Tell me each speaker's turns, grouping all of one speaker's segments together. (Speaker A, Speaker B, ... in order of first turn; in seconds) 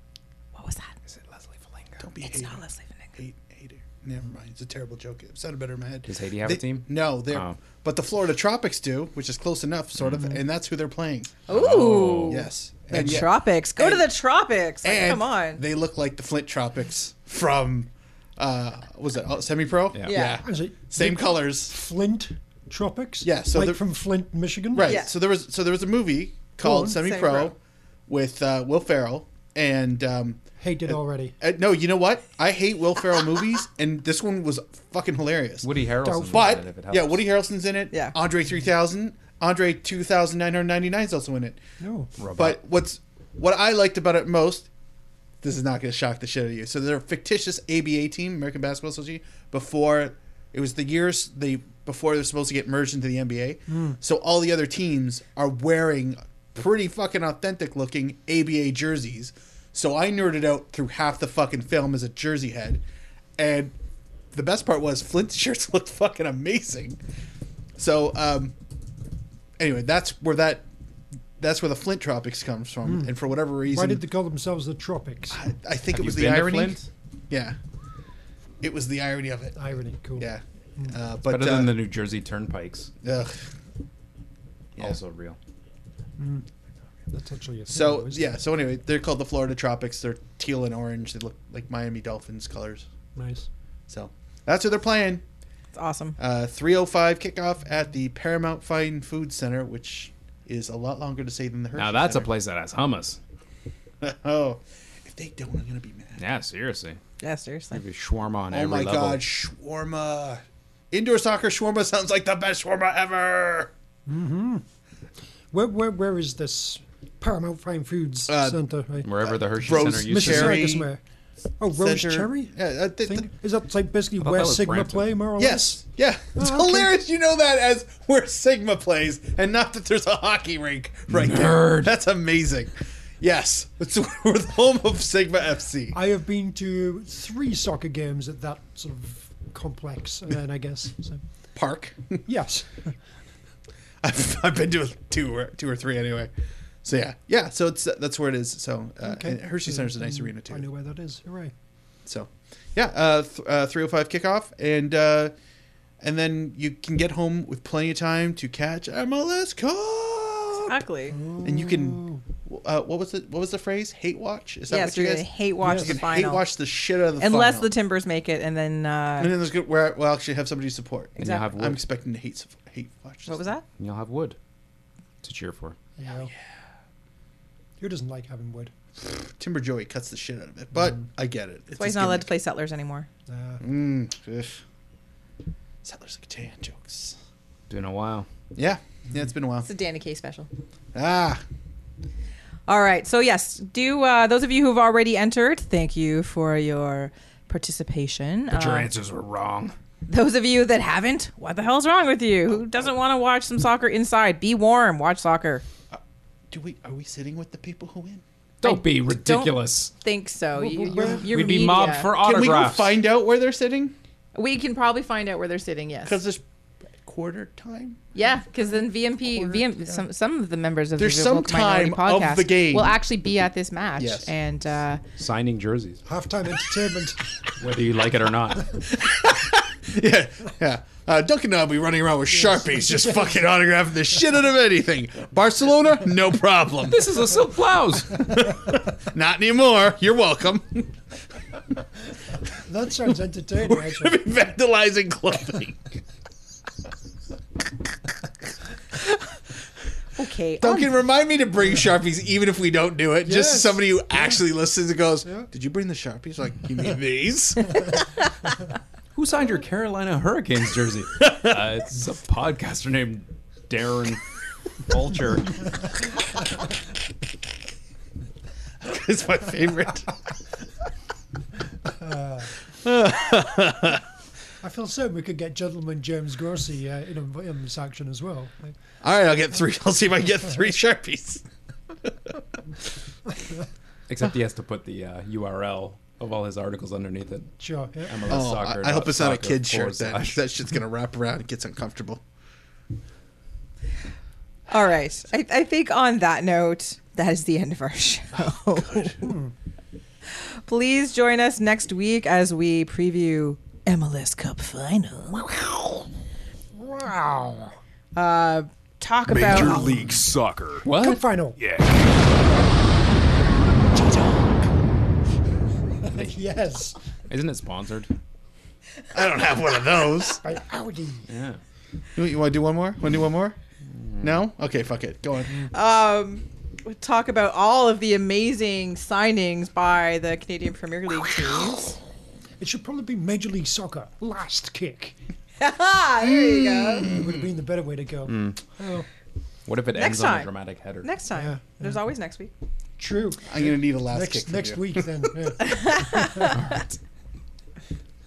Speaker A: 0.5-0.9, 2.2-3.2, 11.5-15.6, 20.1-20.4, 24.8-25.1, 26.9-27.5, 95.7-96.2, 107.2-107.8, 160.5-161.2, 164.7-166.5, 167.2-169.4, 171.2-171.5, 173.3-173.7, 181.8-183.1, 189.6-190.5, 192.7-198.9, 200.1-205.6, 208.6-212.1, 214.3-216.2, 218.2-225.0, 250.2-250.9, 294.7-299.2, 300.4-305.5, 308.1-309.9, 325.7-332.0, 335.6-337.2, 339.9-340.5, 341.0-342.5, 345.6-346.9
Speaker B: 1.1-2.0, 6.1-7.6, 10.0-10.3, 11.5-12.5, 35.6-37.2, 42.2-42.6, 75.9-76.9, 81.3-82.9, 84.8-85.4, 101.8-103.2, 106.2-107.0, 107.7-109.2, 119.0-120.7, 124.2-125.2, 131.1-131.9, 171.2-171.8, 173.8-174.4, 175.2-175.8, 187.7-188.3, 198.5-199.8, 208.6-209.9, 211.0-213.0, 225.2-226.0, 227.5-228.8, 236.8-238.6, 259.1-264.2, 264.9-265.8, 284.1-287.5, 288.1-290.4, 309.3-312.0, 317.3-318.1, 321.3-321.6, 323.9-324.4, 338.3-338.6, 339.7-341.1
Speaker C: 2.0-2.6, 3.2-11.4, 12.2-14.1, 14.8-21.7, 23.2-23.8, 24.7-27.6, 28.1-35.7, 36.2-41.6, 42.3-44.7, 45.4-62.8, 63.4-63.8, 64.3-67.0, 67.8-68.6, 69.6-70.7, 71.4-74.0, 75.3-77.6, 78.6-81.8, 83.0-83.5, 87.7-92.9, 93.9-95.2, 96.2-102.3, 104.0-106.2, 108.5-113.7, 118.3-120.9, 121.7-123.3, 125.4-136.0, 141.6-142.3, 144.0-146.3, 146.8-150.7, 152.1-155.3, 156.0-160.8, 161.4-167.7, 169.2-173.4, 179.2-182.3, 183.6-184.6, 185.8-187.2, 188.5-189.7, 190.9-191.4, 206.5-208.2, 212.2-213.9, 216.1-218.0, 221.0-223.0, 224.0-224.3, 228.7-237.2, 238.2-241.0, 243.6-245.9, 250.6-258.0, 261.2-261.6, 268.8-270.2, 272.8-274.0, 279.0-281.4, 282.0-282.3, 288.3-292.2, 298.4-299.3, 319.1-320.4, 322.2-323.6, 324.2-325.6, 336.4-337.4, 343.5-345.5
Speaker D: 20.4-25.0, 26.6-27.0, 30.6-31.4, 36.0-36.5, 41.8-42.1, 53.7-54.0, 72.8-75.4, 79.5-81.0, 86.2-86.5, 87.1-88.2, 93.2-93.5, 114.1-114.7, 115.5-119.1, 119.7-121.0, 121.6-125.8, 126.4-126.9, 135.9-141.2, 142.3-142.9, 149.0-151.5, 161.1-162.2, 165.6-166.0, 176.0-176.3, 177.8-178.7, 183.3-183.6, 210.6-211.8, 226.1-227.2, 232.4-233.3, 242.7-244.2, 253.3-254.4, 271.9-272.5, 274.6-278.8, 287.6-288.2, 299.2-299.5, 306.7-307.8, 310.9-311.6, 316.0-317.0, 320.4-321.3, 332.6-335.2, 337.1-339.1, 341.4-342.0, 343.0-346.4